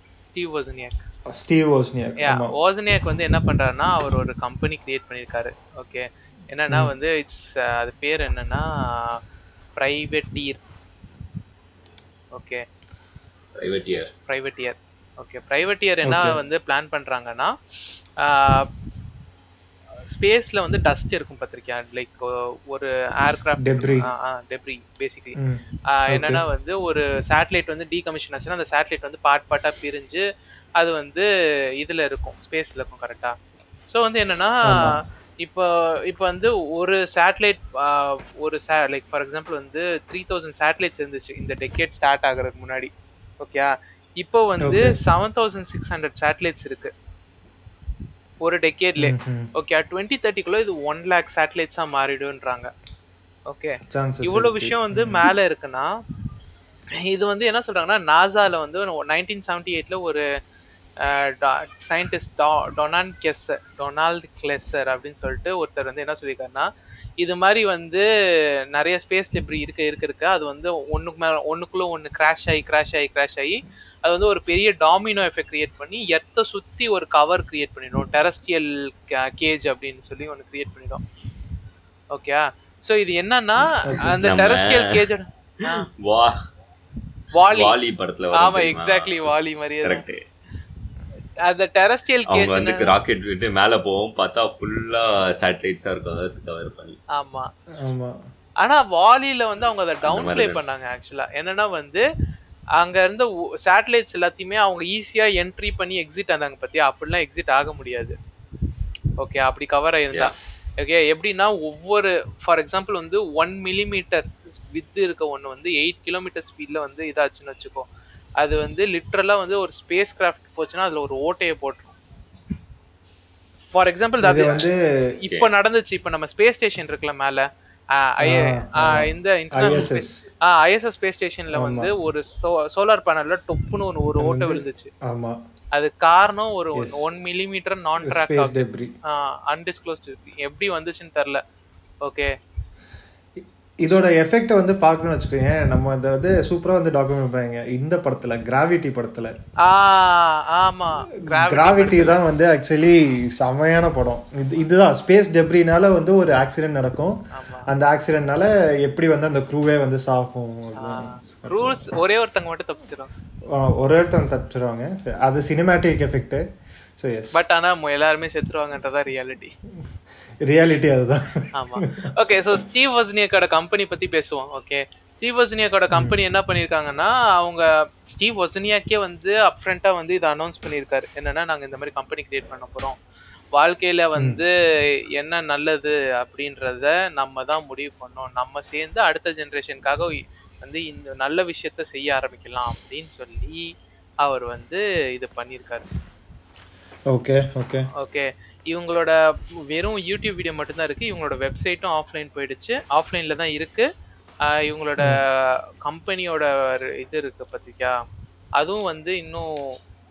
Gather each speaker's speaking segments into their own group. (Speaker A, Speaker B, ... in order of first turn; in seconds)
Speaker A: 0.2-1.0, 2.2-9.2, 9.8-10.6, 12.3-12.6, 14.3-17.5, 18.2-18.7, 20.1-25.4, 25.9-30.2, 30.8-33.4, 33.9-46.9, 48.4-52.7, 53.5-55.9, 57.1-60.2, 61.0-66.7, 67.2-68.0, 68.7-81.0, 82.1-85.9, 87.3-87.8, 88.3-90.1, 91.4-93.0, 97.2-97.5, 98.6-102.0, 102.8-108.2, 109.2-117.9, 118.4-122.0, 123.7-124.7, 125.3-134.9, 135.7-141.4, 142.0-142.3, 149.6-152.2, 157.3-157.7, 160.8-163.1, 167.3-169.5, 171.5-183.0, 183.6-184.5, 185.1-193.6, 194.2-195.8, 198.0-199.2, 199.7-203.9, 204.5-208.0, 208.6-209.7
Speaker B: 1.3-2.5, 16.0-16.4, 23.6-24.1, 25.4-26.4, 34.7-35.0, 44.6-45.0, 49.0-49.5, 53.9-55.3, 83.8-84.1, 97.8-98.2, 124.2-124.9, 128.2-130.3, 131.5-131.9, 134.2-135.4, 136.8-137.1, 138.0-138.9, 143.4-149.3, 151.2-161.9, 163.5-166.4, 167.0-167.4, 170.4-172.1, 184.2-184.4, 197.1-197.9
Speaker C: 13.6-14.1, 84.2-85.1, 86.0-86.3, 87.5-90.2, 92.3-97.0, 100.0-100.6